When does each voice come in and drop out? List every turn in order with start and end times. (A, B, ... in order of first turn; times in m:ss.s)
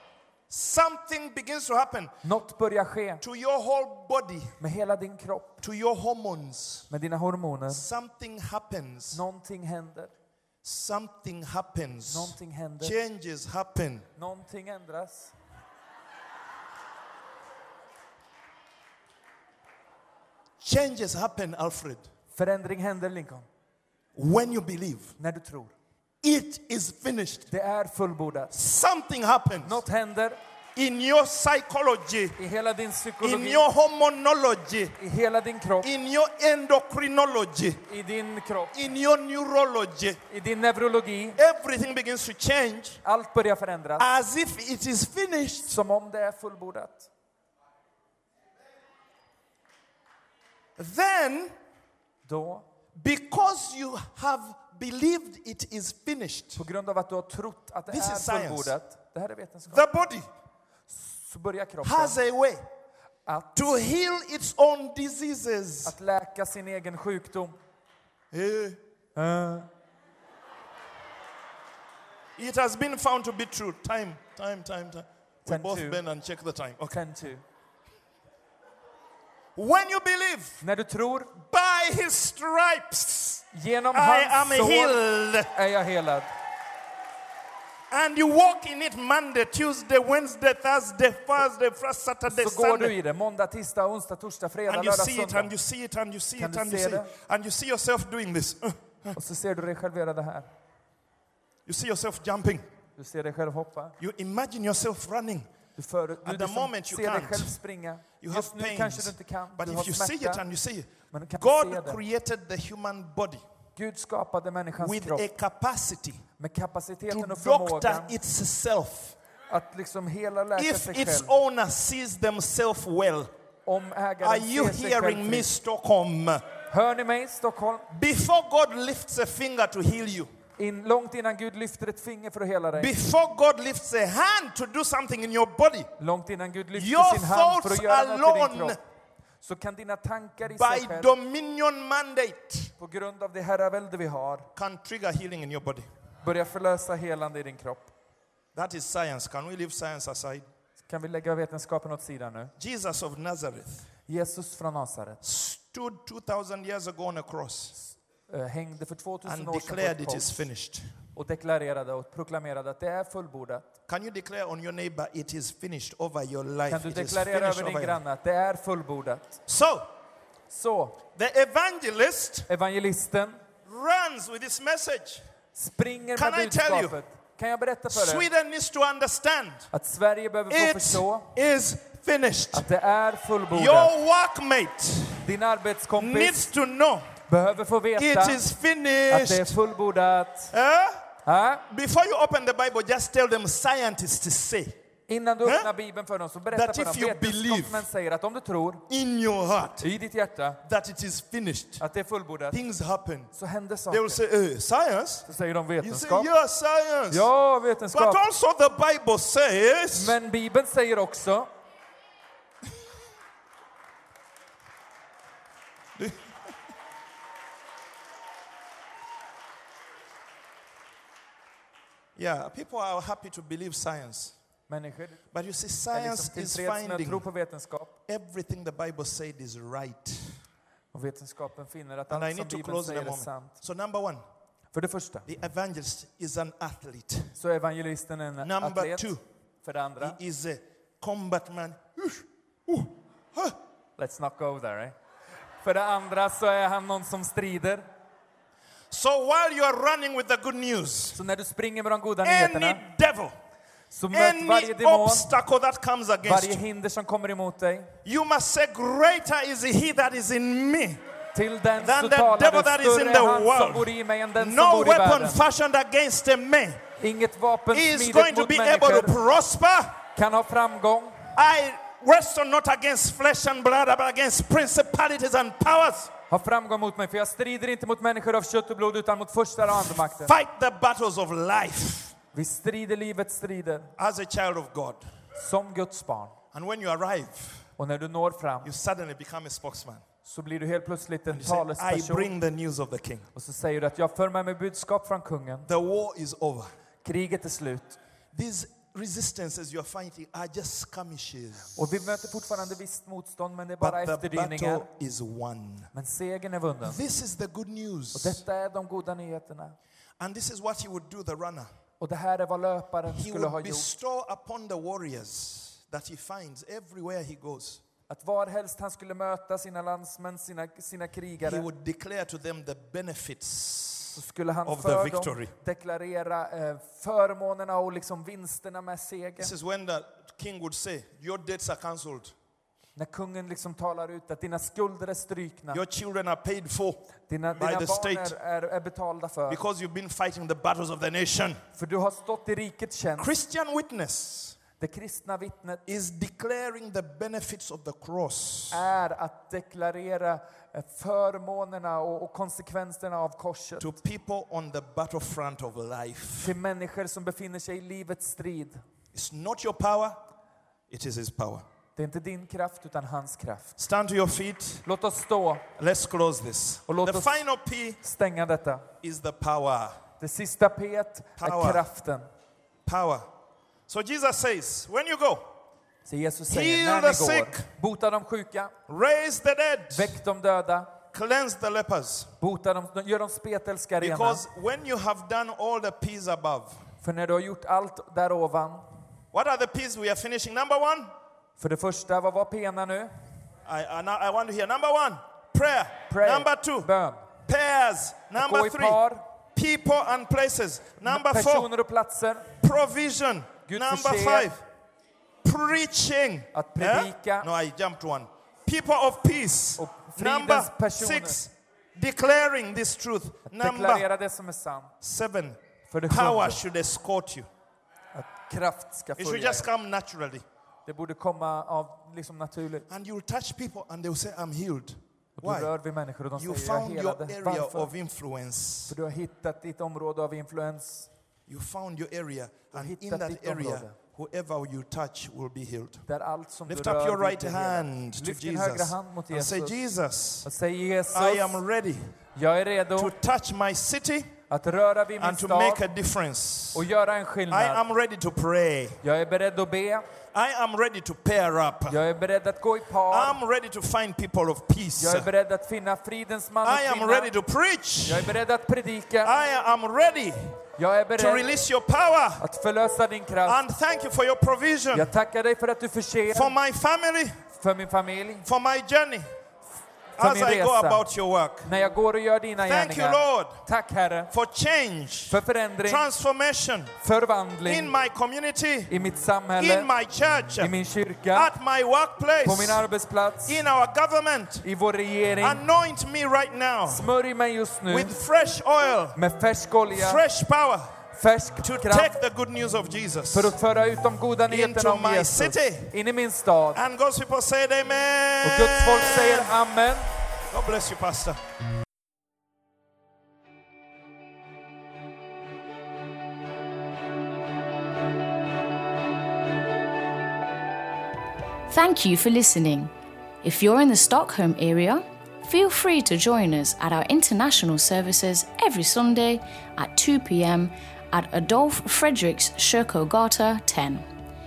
0:00.5-0:02.1 A
0:02.2-0:03.2 B
0:03.2-0:04.6 A
0:04.6-0:05.6 B
0:05.6-0:06.9 A
0:06.9-0:07.9 B
0:07.7-0:09.2 A
0:09.1-0:10.1 B
0:10.6-0:14.0 A
0:12.1-0:13.0 B
0:14.2-0:15.3 B
0:20.6-0:22.0 A
0:22.3-0:23.5 B
0:24.2-0:25.2 A
0:25.2-0:25.7 B
0:26.2-0:27.5 A
0:27.5-0:28.5 B
0:28.5-0:29.8 A
0:29.6-0:30.4 B
0:30.8-0:32.4 A
0:32.4-0:33.7 B
0:33.2-0:35.0 A
0:35.0-0:35.9 B
0:35.8-0:37.8 A
0:37.9-0:38.8 B
0:38.7-0:40.2 A
0:40.3-0:41.4 B
0:41.4-0:43.0 A
0:43.0-0:44.1 B
0:44.0-0:45.8 A
0:45.7-0:47.1 B
0:50.8-0:51.5 A
0:52.2-0:52.6 B
0:53.0-0:56.6 A
0:56.6-0:59.8 B
0:57.9-0:58.8 A
0:59.7-1:00.3 A
1:00.9-1:02.2 B
1:01.8-1:02.6 A
1:03.3-1:03.5 B
1:03.6-1:06.0 A
1:05.8-1:07.6 B
1:08.3-1:08.8 A
1:09.2-1:09.7 B
1:12.4-1:17.0 A
1:15.5-1:16.0 B
1:16.9-1:17.4 B
1:19.6-1:20.6 A
1:20.6-1:21.3 B
1:21.4-1:25.5 A
1:23.5-1:26.3 B
1:27.9-1:33.0 A
1:32.3-1:35.5 B
1:34.7-1:39.2 A
1:36.4-1:37.1 B
1:39.2-1:40.5 B
1:41.7-1:42.6 A
1:43.0-1:44.0 B
1:44.0-1:45.5 A
1:45.8-1:50.4 B
1:46.2-1:47.6 A
1:48.2-1:53.4 A
1:51.1-1:52.0 B
1:53.8-1:55.2 B
1:54.8-1:56.2 A
1:56.4-1:58.1 B
1:57.1-1:59.2 A
1:59.5-2:01.3 B
2:00.6-2:03.3 A
2:03.7-2:05.5 B
2:04.2-2:06.4 A
2:06.7-2:07.9 B
2:07.9-2:10.3 A
2:10.6-2:12.9 B
2:12.8-2:15.9 A
2:16.0-2:18.8 B
2:16.8-2:18.8 A
2:19.4-2:21.2 B
2:20.4-2:22.7 A
2:22.8-2:24.5 B
2:24.6-2:25.9 A
2:26.2-2:27.9 B
2:28.5-2:30.4 A
2:30.8-2:32.5 B
2:32.6-2:33.9 A
2:34.1-2:35.2 B
2:35.2-2:37.8 A
2:38.3-2:40.4 B
2:39.2-2:40.9 A
2:41.2-2:43.7 B
2:43.9-2:48.0 A
2:46.7-2:49.4 B
2:49.5-2:49.9 A
2:50.5-2:51.0 B
2:51.2-2:52.5 A
2:52.5-2:53.4 B
2:53.7-2:55.2 A
2:55.6-2:58.2 B
2:56.2-2:57.0 A
2:57.9-2:59.7 A
2:59.7-3:01.3 B
3:00.5-3:02.7 A
3:02.5-3:03.9 B
3:03.5-3:05.3 A
3:05.2-3:06.5 B
3:06.0-3:07.1 A
3:07.3-3:08.4 B
3:08.0-3:09.6 A
3:09.1-3:10.5 B
3:10.5-3:11.0 A
3:11.2-3:11.6 B
3:11.7-3:14.8 A
3:15.1-3:18.8 B
3:15.4-3:15.7 A
3:16.5-3:17.9 A
3:18.9-3:19.9 A
3:19.8-3:20.6 B
3:20.6-3:21.8 A
3:21.8-3:22.6 B
3:22.5-3:23.3 A
3:23.3-3:24.2 B
3:23.9-3:25.3 A
3:25.3-3:26.3 B
3:25.8-3:27.3 A
3:27.1-3:28.2 B
3:27.9-3:30.2 A
3:30.0-3:31.5 B
3:36.0-3:36.2 A
3:42.2-3:44.4 A
3:44.7-3:45.2 B
3:45.3-3:47.3 A
3:45.9-3:47.9 B
3:48.1-3:50.4 A
3:50.9-3:53.5 B
3:52.1-3:54.2 A
3:54.7-3:55.3 B
3:55.3-3:57.4 A
3:57.4-3:59.1 B
3:58.4-3:59.2 A
3:59.6-4:00.2 B
4:00.0-4:03.6 A
4:04.0-4:04.9 B
4:05.6-4:07.9 B
4:08.9-4:11.2 A
4:11.1-4:12.8 B
4:12.2-4:13.4 A
4:13.9-4:15.3 B
4:14.1-4:16.6 A
4:16.2-4:18.0 B
4:18.0-4:21.0 A
4:21.3-4:25.4 B
4:21.8-4:26.8 A
4:27.0-4:29.2 B
4:27.7-4:30.0 A
4:30.2-4:31.3 B
4:31.4-4:36.1 A
4:36.3-4:40.3 B
4:40.1-4:42.2 A
4:42.3-4:43.9 B
4:44.0-4:45.0 A
4:45.4-4:46.4 B
4:46.5-4:47.7 A
4:47.8-4:48.7 B
4:48.6-4:50.0 A
4:50.2-4:52.3 B
4:51.3-4:53.3 A
4:53.4-4:55.7 B
4:55.7-4:56.7 A
4:57.0-4:58.0 B
4:58.3-5:01.8 A
5:01.8-5:04.9 B
5:03.8-5:05.9 A
5:05.9-5:07.0 B
5:06.8-5:08.4 A
5:08.1-5:09.8 B
5:10.2-5:11.7 A
5:12.0-5:13.9 B
5:13.1-5:17.8 A
5:18.1-5:21.6 B
5:21.4-5:25.5 A
5:24.2-5:29.5 B
5:29.4-5:32.3 A
5:33.0-5:35.8 B
5:35.7-5:37.0 A
5:37.3-5:39.6 B
5:37.6-5:38.4 A
5:39.5-5:41.6 A
5:41.8-5:43.3 B
5:43.2-5:44.6 A
5:44.8-5:45.8 B
5:45.9-5:48.8 A
5:48.7-5:53.9 B
5:53.8-5:56.6 A
5:56.4-5:58.8 B
5:59.1-6:00.2 A
6:00.9-6:01.6 A
6:02.0-6:03.8 B
6:03.8-6:04.8 A
6:04.8-6:05.7 B
6:05.8-6:08.0 A
6:06.9-6:07.3 B
6:08.0-6:08.9 B
6:09.0-6:10.0 A
6:10.2-6:12.3 B
6:11.4-6:11.9 A
6:12.8-6:13.3 A
6:13.9-6:15.5 A
6:16.1-6:18.7 B
6:16.5-6:17.7 A
6:18.9-6:20.2 A
6:19.9-6:21.0 B
6:21.1-6:22.3 A
6:22.4-6:24.4 B
6:24.0-6:26.8 A
6:27.0-6:28.9 B
6:29.3-6:31.1 A
6:31.6-6:33.1 B
6:33.7-6:36.9 A
6:36.1-6:37.2 B
6:37.5-6:39.0 A
6:38.4-6:39.2 B
6:39.6-6:41.7 A
6:41.0-6:42.5 B
6:42.6-6:44.6 A
6:43.7-6:44.5 B
6:45.4-6:54.1 A
6:46.5-6:47.5 B
6:49.8-6:51.4 B
6:53.5-6:54.9 B
6:55.0-6:57.5 A
6:55.9-6:56.6 B
6:58.1-6:59.7 B
6:59.2-7:00.4 A
7:00.9-7:02.9 B
7:02.9-7:05.7 A
7:05.4-7:07.9 B
7:06.4-7:09.0 A
7:08.9-7:11.1 B
7:11.5-7:16.1 A
7:12.7-7:14.0 B
7:16.1-7:19.8 B
7:16.7-7:20.5 A
7:20.4-7:21.6 B
7:21.1-7:22.1 A
7:22.4-7:23.2 B
7:23.0-7:24.3 A
7:24.5-7:25.8 B
7:25.2-7:26.9 A
7:26.7-7:27.8 B
7:27.5-7:29.0 A
7:29.0-7:30.1 B
7:30.3-7:32.0 A
7:31.9-7:33.4 B
7:33.1-7:35.3 A
7:35.0-7:37.3 B
7:36.6-7:38.4 A
7:38.0-7:39.4 B
7:39.2-7:40.6 A
7:40.8-7:41.5 B
7:41.2-7:42.4 A
7:42.4-7:43.6 B
7:43.4-7:45.1 A
7:44.9-7:46.6 B
7:46.3-7:47.4 A
7:47.5-7:48.5 B
7:48.4-7:49.3 A
7:50.2-7:51.0 B
7:50.2-7:51.7 A
7:51.6-7:54.3 B
7:52.6-7:53.6 A
7:54.3-7:56.9 A
7:55.3-7:56.1 B
7:57.0-7:57.9 B
7:57.6-7:58.9 A
7:58.9-7:59.9 B
7:59.6-8:00.7 A
8:00.6-8:01.5 B
8:01.3-8:02.8 A
8:02.4-8:03.6 B
8:03.5-8:04.6 A
8:04.6-8:05.6 B
8:05.4-8:07.1 A
8:06.9-8:08.2 B
8:07.9-8:09.2 A
8:09.2-8:10.2 B
8:09.9-8:10.9 A
8:11.1-8:12.2 B
8:11.6-8:13.6 A
8:13.3-8:16.8 B
8:14.5-8:16.0 A
8:16.8-8:19.5 A
8:18.4-8:20.1 B
8:20.5-8:21.4 A
8:31.7-8:32.9 C
8:33.4-8:44.1 C